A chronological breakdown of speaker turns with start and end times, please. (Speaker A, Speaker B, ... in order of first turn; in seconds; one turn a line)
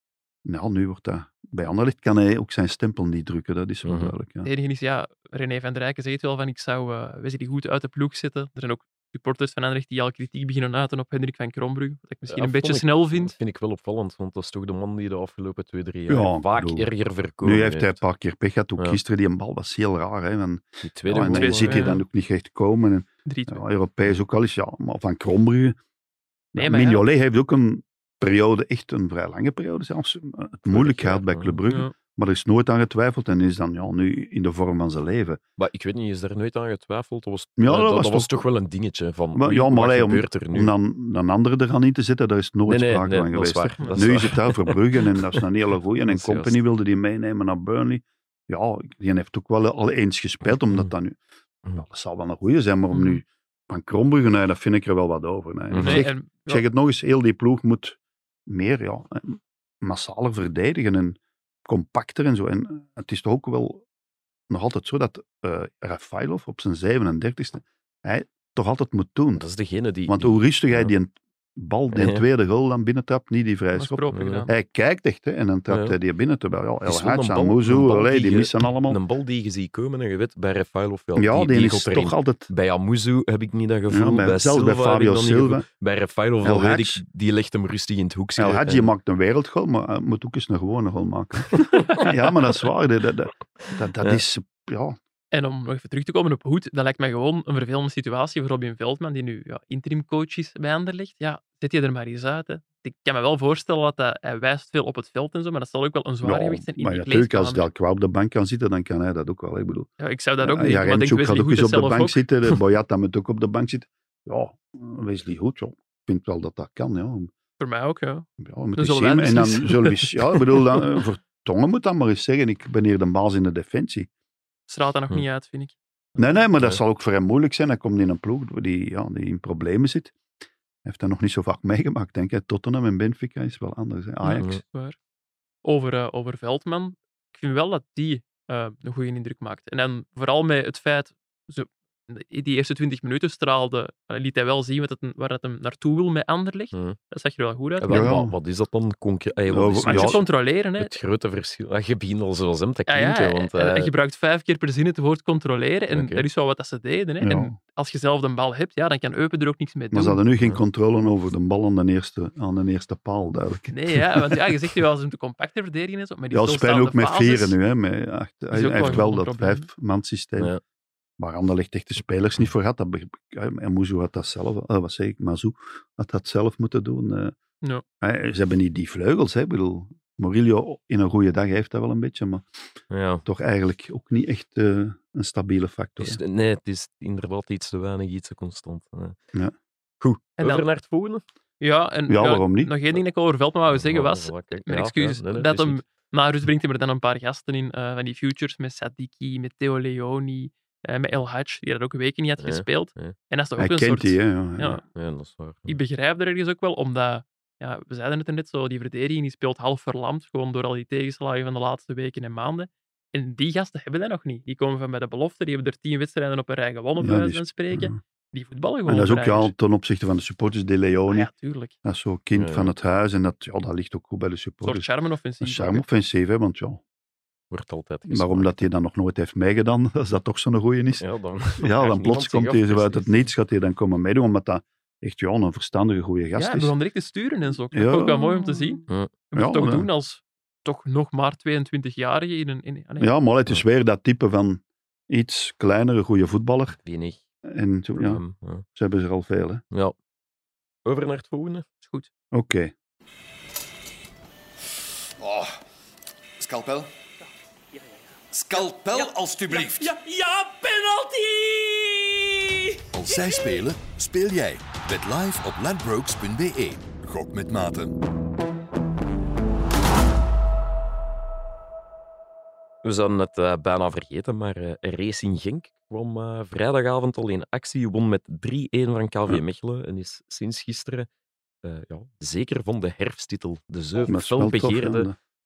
Speaker A: 0.4-4.5
Speaker B: 3.8-4.1
Speaker C: 4.4-13.3
Speaker B: 12.3-18.0
Speaker A: 16.1-16.9
Speaker A: 17.4-25.8
Speaker B: 20.8-22.0
Speaker C: 21.1-22.0
Speaker C: 23.2-23.6
Speaker A: 26.5-35.4
Speaker C: 26.6-27.0
Speaker B: 30.7-31.6
Speaker C: 31.7-31.9
Speaker B: 35.6-40.7
Speaker A: 37.6-38.3
Speaker A: 39.3-51.2
Speaker B: 42.7-45.4
Speaker C: 43.8-44.1
Speaker B: 46.0-46.5
Speaker B: 50.7-50.9
Speaker A: 51.8-63.8
Speaker C: 52.9-53.2
Speaker B: 55.7-56.0
Speaker C: 55.8-56.6
Speaker A: 64.5-69.5
Speaker B: 69.3-70.9
Speaker A: 70.1-79.0
Speaker B: 71.9-72.2
Speaker C: 73.7-74.5
Speaker B: 74.1-74.5
Speaker B: 75.7-76.0
Speaker B: 76.8-88.9
Speaker A: 81.2-82.5
Speaker A: 83.9-85.7
Speaker A: 86.4-87.0
Speaker A: 88.4-95.0
Speaker B: 91.6-91.8
Speaker C: 91.7-92.1
Speaker C: 95.3-107.7
Speaker A: 106.2-109.9
Speaker C: 110.0-112.2
Speaker A: 110.4-117.3
Speaker C: 117.6-120.9
Speaker A: 118.4-124.1
Speaker C: 124.7-125.7
Speaker A: 126.2-130.1
Speaker A: 130.8-134.5
Speaker C: 134.2-134.9
Speaker C: 135.6-148.1
Speaker B: 147.8-150.2
Speaker A: 147.9-148.3
Speaker A: 149.5-150.2
Speaker C: 149.8-150.9
Speaker B: 150.8-153.9
Speaker C: 152.9-160.2
Speaker B: 155.9-156.2
Speaker A: 157.2-157.5
Speaker A: 159.9-164.4
Speaker C: 163.7-167.6
Speaker A: 166.3-170.5
Speaker C: 168.5-169.7
Speaker A: 171.2-177.3
Speaker A: 178.0-182.4
Speaker B: 182.9-183.2
Speaker A: 183.2-186.2
Speaker B: 186.0-189.2
Speaker B: 190.0-191.2
Speaker C: 190.4-190.7
Speaker C: 191.6-204.8
Speaker A: 192.1-192.7
Speaker B: 193.7-195.8
Speaker B: 202.4-203.1
Speaker A: 203.6-204.8
Speaker B: 204.9-205.8
Speaker C: 205.7-219.5
Speaker A: 217.0-218.0
Speaker A: 218.8-221.3
Speaker C: 221.1-221.7
Speaker A: 221.8-224.8
Speaker B: 222.3-222.7
Speaker C: 224.6-225.8
Speaker A: 225.4-226.8
Speaker B: 227.5-228.7
Speaker A: 228.1-231.0
Speaker B: 231.0-233.3
Speaker A: 231.6-236.7
Speaker C: 236.3-243.1
Speaker A: 237.7-238.8
Speaker A: 239.3-239.9
Speaker A: 243.0-246.8
Speaker B: 246.8-247.2
Speaker A: 247.4-248.2
Speaker B: 247.9-248.6
Speaker A: 248.7-249.6
Speaker B: 250.8-251.7
Speaker C: 251.8-252.1
Speaker A: 252.3-252.7
Speaker D: 255.2-255.6
Speaker D: 256.4-256.9
Speaker D: 258.3-259.9
Speaker C: 258.6-263.7
Speaker D: 262.9-267.9
Speaker B: 272.8-281.1
Speaker B: 281.6-285.1
Speaker A: 284.1-285.2